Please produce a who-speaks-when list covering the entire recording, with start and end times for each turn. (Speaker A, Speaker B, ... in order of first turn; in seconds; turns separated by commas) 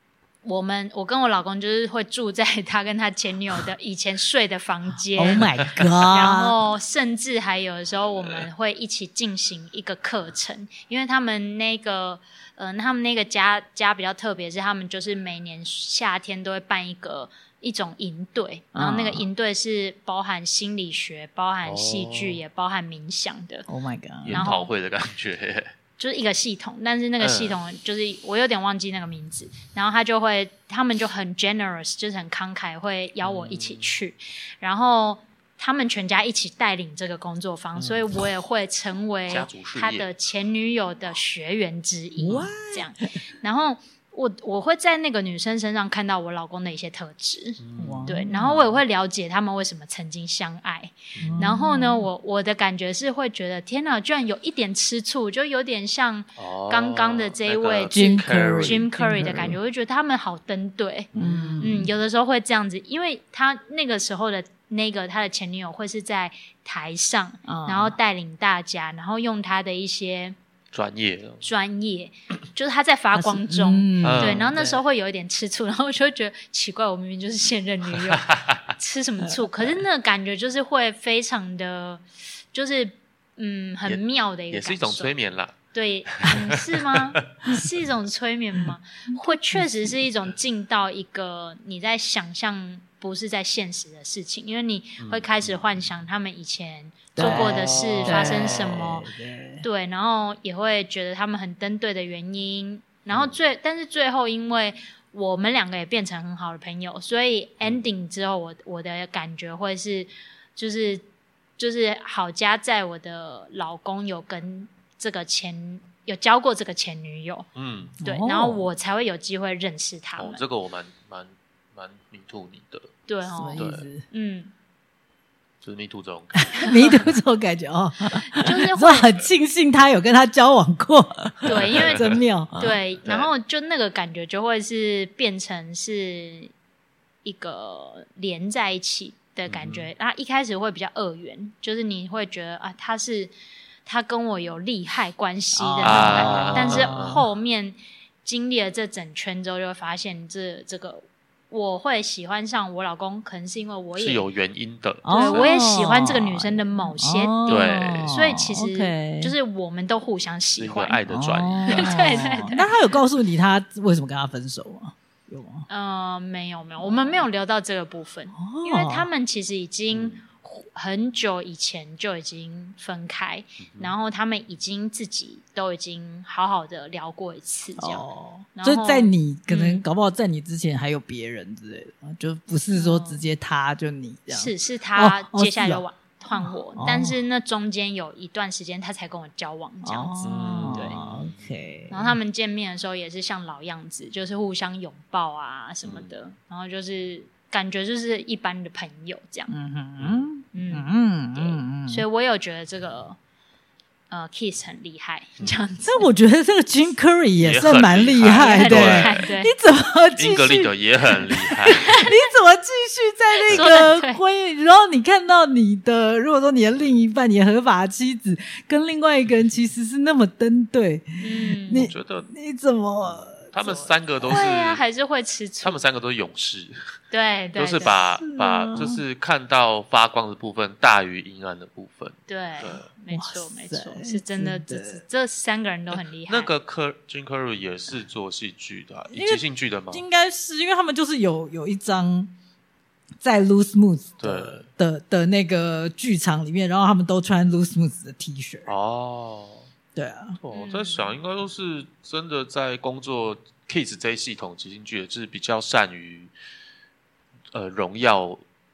Speaker A: 0.4-5.5, Speaker B: 5.2-6.6, Speaker C: 5.4-5.9, Speaker A: 6.1-23.7, Speaker B: 18.8-19.2, Speaker C: 21.6-22.4, Speaker B: 23.7-24.5, Speaker C: 24.2-25.7, Speaker A: 24.3-24.7, Speaker A: 26.0-61.1, Speaker C: 27.2-27.6, Speaker C: 33.2-34.0, Speaker C: 37.8-38.1, Speaker C: 39.3-40.1, Speaker B: 42.2-42.9, Speaker C: 47.6-48.1, Speaker B: 47.8-48.6, Speaker C: 51.1-51.5, Speaker B: 51.2-52.1, Speaker C: 56.4-59.5, Speaker B: 57.9-59.6, Speaker C: 61.1-61.6, Speaker B: 61.1-61.9, Speaker A: 61.6-70.4, Speaker B: 67.5-68.0, Speaker C: 70.7-71.5, Speaker A: 71.4-85.2, Speaker B: 73.1-74.7, Speaker C: 74.0-74.8, Speaker C: 78.2-78.6, Speaker C: 83.8-85.6, Speaker A: 85.7-99.1, Speaker C: 86.2-87.0, Speaker C: 95.0-95.7, Speaker B: 97.2-99.7, Speaker C: 97.2-99.0, Speaker A: 99.6-111.0, Speaker A: 111.6-117.5, Speaker C: 117.6-118.0, Speaker B: 118.0-118.7, Speaker A: 118.0-120.4, Speaker C: 120.2-122.9, Speaker A: 123.1-124.5, Speaker B: 123.3-124.0, Speaker C: 123.6-123.9, Speaker C: 125.6-127.1, Speaker B: 126.5-132.8, Speaker A: 128.3-129.1, Speaker A: 131.4-136.5, Speaker C: 131.5-132.2, Speaker C: 133.0-133.3, Speaker A: 137.2-143.3, Speaker C: 139.5-139.9, Speaker A: 143.8-154.2, Speaker B: 145.6-147.2, Speaker C: 145.8-147.2, Speaker C: 154.0-155.5, Speaker B: 155.1-159.3, Speaker A: 155.1-161.0, Speaker C: 157.5-158.2, Speaker C: 160.6-162.5, Speaker B: 161.1-165.7, Speaker A: 161.7-162.7, Speaker A: 165.7-179.8, Speaker B: 168.4-169.1, Speaker C: 169.9-170.2, Speaker C: 173.6-173.9, Speaker B: 177.8-187.2, Speaker A: 182.7-183.2, Speaker A: 184.3-191.0, Speaker B: 189.8-192.2, Speaker C: 190.2-191.4, Speaker A: 191.9-199.5, Speaker C: 195.8-196.1, Speaker B: 199.5-202.1, Speaker C: 200.0-200.3, Speaker A: 200.5-200.9, Speaker A: 201.4-203.2, Speaker A: 204.1-206.1, Speaker B: 205.8-224.5, Speaker C: 207.4-209.2, Speaker A: 208.3-209.5, Speaker C: 210.2-212.0, Speaker A: 211.8-212.1, Speaker A: 213.5-214.2, Speaker A: 221.2-221.9, Speaker C: 221.7-222.3, Speaker C: 223.0-224.8, Speaker A: 224.3-225.8, Speaker C: 225.6-226.8, Speaker A: 227.1-228.0, Speaker C: 227.6-232.8, Speaker B: 227.8-229.0, Speaker A: 232.3-236.5, Speaker B: 233.1-235.0, Speaker C: 235.9-240.0, Speaker B: 239.1-242.3, Speaker B: 243.2-248.7, Speaker C: 244.2-244.7, Speaker C: 248.7-249.7, Speaker B: 249.9-250.4, Speaker C: 250.4-256.3, Speaker A: 250.5-251.1, Speaker C: 257.5-258.4